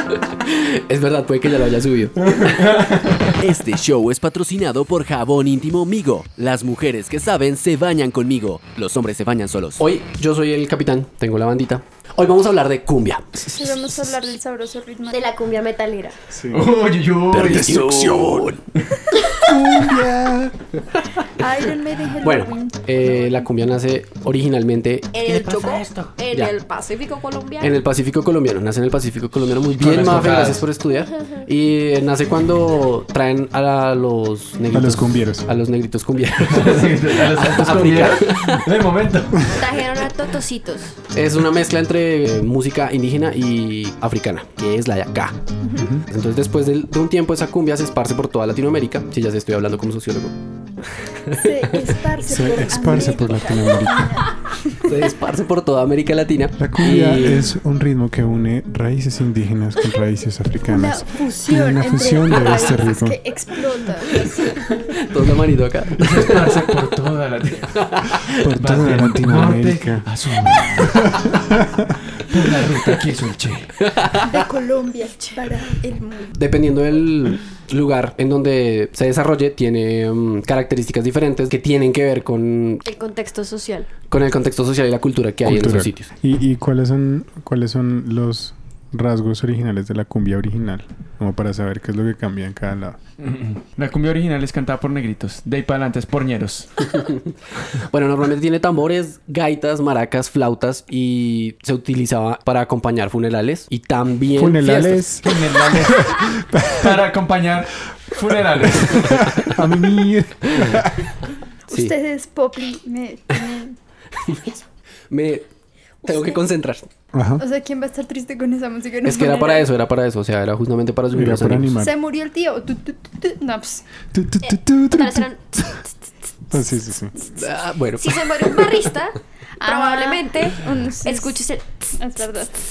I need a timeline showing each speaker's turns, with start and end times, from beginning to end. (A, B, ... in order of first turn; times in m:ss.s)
0:00.3-0:02.4 A
0:02.3-0:03.4 B
0:03.4-0:09.8 C
0:09.8-0:13.4 A
0:13.5-0:15.3 D
0:15.1-0:16.2 E
0:16.3-0:16.7 F
0:16.5-0:18.0 B
0:17.3-0:18.6 C
0:19.5-0:20.5 F
0:21.4-0:23.3 D
0:22.2-0:25.5 A
0:25.1-0:27.8 E
0:27.6-0:38.6 A
0:29.8-0:30.7 B
0:31.0-0:31.5 E
0:34.7-0:35.5 F
0:36.5-0:39.6 B
0:39.5-0:41.0 E
0:41.1-0:45.4 A
0:45.6-0:45.9 D
0:45.8-0:46.0 F
0:46.0-0:50.4 A
0:51.2-0:51.9 A
0:51.4-0:55.0 D
0:52.2-0:54.2 F
0:54.8-0:57.5 A
0:56.6-1:03.2 F
1:00.7-1:04.6 D
1:05.0-1:06.7 A
1:06.0-1:07.9 B
1:07.9-1:08.2 A
1:08.4-1:10.0 F
1:08.6-1:11.3 B
1:11.1-1:11.8 F
1:12.1-1:13.7 B
1:13.9-1:14.2 A
1:14.2-1:16.4 D
1:16.4-1:22.8 A
1:22.8-1:23.9 E
1:24.1-1:26.1 A
1:25.4-1:33.0 F
1:33.2-1:36.7 B
1:37.7-1:45.0 A
1:44.4-1:47.0 F
1:45.2-1:49.5 B
1:48.8-1:51.1 F
1:51.7-1:53.8 D
1:54.2-1:54.6 A
1:55.1-1:55.5 A
1:56.0-1:56.9 A
1:57.1-1:57.4 F
1:57.4-1:59.7 D
1:59.0-2:01.8 A
2:01.1-2:02.0 F
2:01.8-2:03.8 D
2:04.1-2:05.3 F
2:04.5-2:06.6 E
2:06.5-2:07.1 F
2:07.4-2:08.9 A
2:08.0-2:12.0 E
2:09.6-2:11.4 D
2:12.0-2:12.5 D